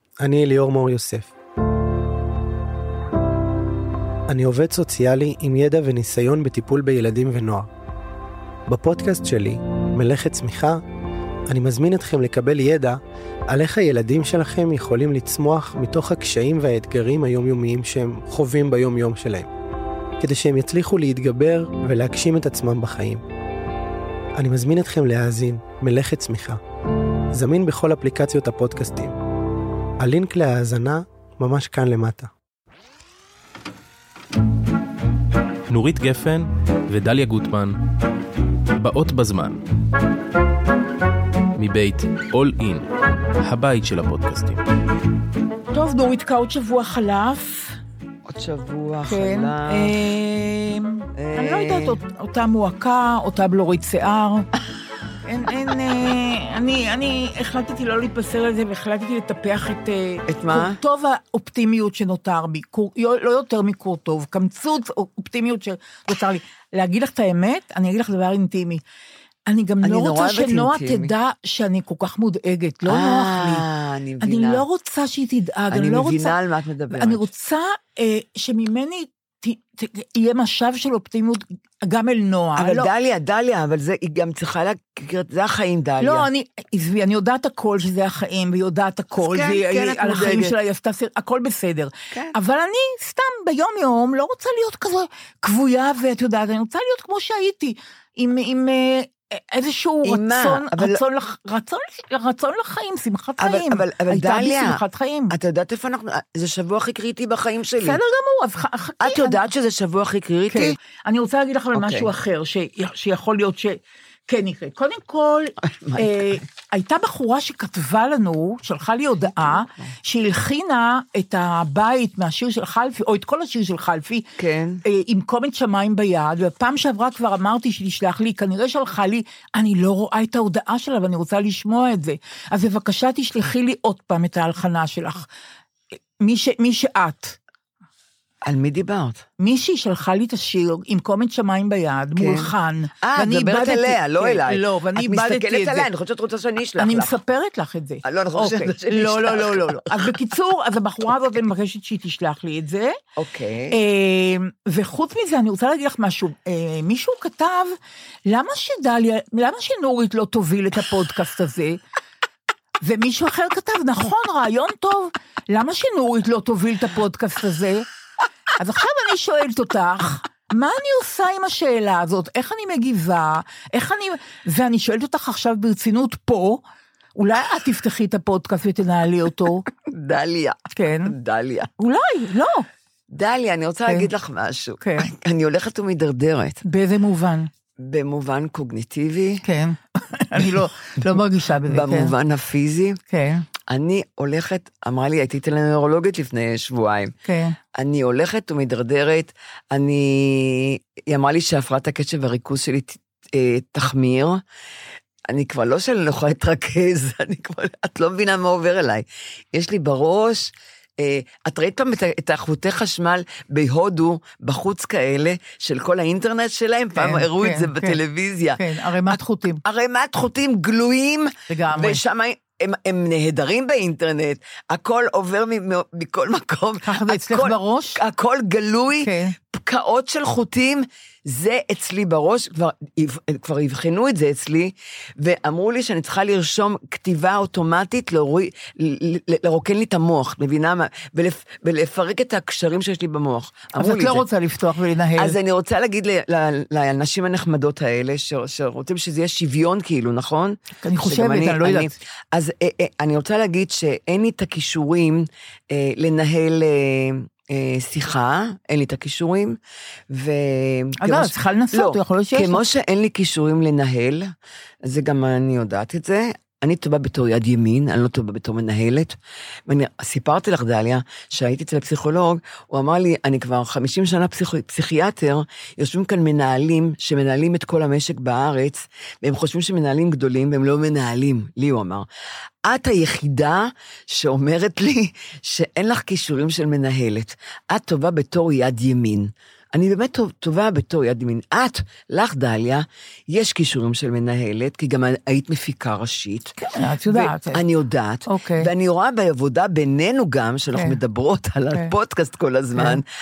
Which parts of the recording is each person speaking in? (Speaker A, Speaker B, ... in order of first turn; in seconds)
Speaker A: 0.2-1.3, 4.3-7.7, 8.7-10.8, 11.5-13.0, 13.5-19.5, 20.2-23.2, 24.4-26.6, 27.3-29.1, 30.0-32.3
Speaker B: 35.7-37.8, 38.8-39.6, 41.5-44.6
Speaker C: 45.7-47.8, 49.1-54.5, 55.2-68.8, 69.5-73.6, 74.2-76.3, 76.9-82.9, 86.0-105.3, 107.8-109.4, 110.5-124.2, 124.8-135.2, 136.2-137.4, 139.4-145.9, 146.8-153.0, 153.7-161.8, 162.8-167.9, 168.6-176.6, 177.2-179.6, 180.7-181.1, 181.8-182.7, 184.8-185.1, 186.6-187.5, 189.4-192.1, 193.1-193.4, 197.2-197.6, 216.9-217.9, 218.6-219.6, 221.5-222.0, 226.8-228.0, 228.9-229.3, 243.8-245.4, 250.8-251.9, 261.0-262.6, 296.6-297.6, 298.2-298.7
Speaker D: 48.2-50.0, 51.2-52.0, 60.3-60.8, 69.8-71.1, 72.8-74.6, 75.7-77.3, 82.6-86.3, 89.2-90.5, 100.0-101.0, 103.4-108.0, 109.0-110.8, 111.7-112.1, 115.6-116.3, 119.3-119.9, 124.4-124.8, 138.4-139.2, 142.2-147.2, 148.0-150.1, 153.2-153.8, 179.8-181.7, 183.1-186.6, 187.8-189.4, 191.7-193.0, 193.7-197.1, 197.7-204.4, 205.3-244.2, 245.2-259.6, 260.1-264.3, 264.8-269.1, 269.7-282.1, 282.6-303.0